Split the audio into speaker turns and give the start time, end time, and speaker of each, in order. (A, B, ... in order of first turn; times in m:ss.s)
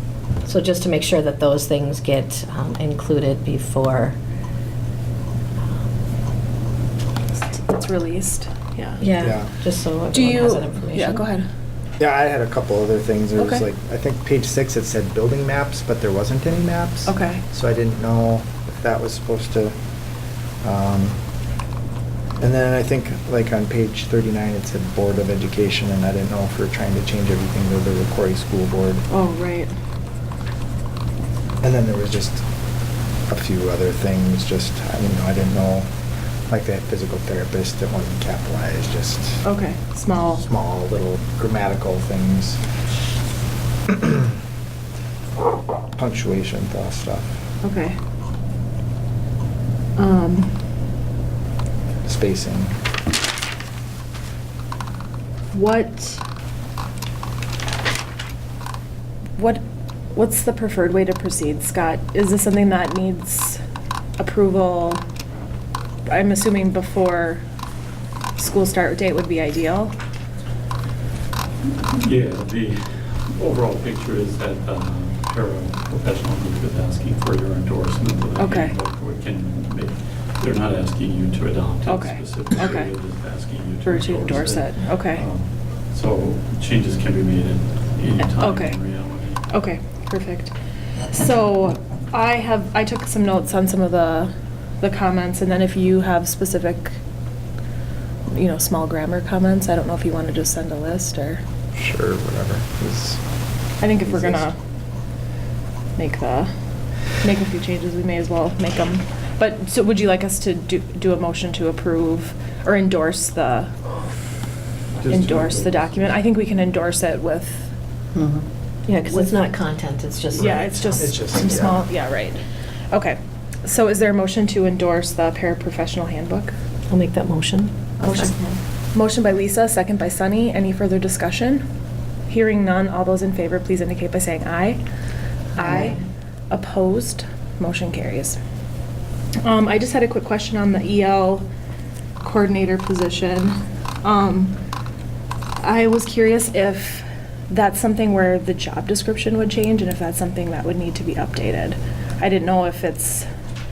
0:00.4-0:04.2 A
0:07.3-0:09.0 B
0:09.0-0:11.2 A
0:09.2-0:09.5 C
0:10.1-0:11.5 B
0:12.0-0:19.7 C
0:13.4-0:13.6 B
0:17.0-0:17.4 B
0:20.6-0:21.2 C
0:22.4-0:29.0 C
0:29.1-0:29.7 B
0:31.6-0:32.4 C
0:33.3-0:35.9 C
0:36.5-0:39.4 C
0:39.4-0:40.4 B
0:40.4-0:42.6 C
0:43.9-0:44.3 C
0:46.0-0:47.3 C
0:47.6-0:48.0 B
0:50.0-0:50.6 B
0:52.0-0:52.8 C
0:55.5-0:56.2 B
0:59.4-0:59.6 B
1:00.1-1:03.6 B
1:04.2-1:05.0 B
1:06.1-1:07.4 B
1:08.4-1:09.9 B
1:11.8-1:29.4 D
1:18.4-1:18.7 B
1:21.8-1:22.9 B
1:23.8-1:25.2 B
1:28.3-1:28.8 B
1:29.5-1:30.5 B
1:31.1-1:37.0 B
1:38.3-1:41.4 B
1:41.8-1:43.2 C
1:43.8-1:44.6 B
1:44.0-1:44.5 C
1:46.0-1:46.5 B
1:47.2-1:53.8 B
1:55.0-1:56.2 D
1:55.1-1:57.7 B
1:58.9-2:01.7 A
2:00.3-2:06.5 B
2:00.4-2:01.8 C
2:06.9-2:08.5 A
2:08.9-2:11.7 B
2:12.3-2:14.8 B
2:15.5-2:18.4 B
2:15.6-2:15.9 A
2:19.4-2:21.5 B
2:22.2-2:24.6 B
2:25.6-2:33.3 B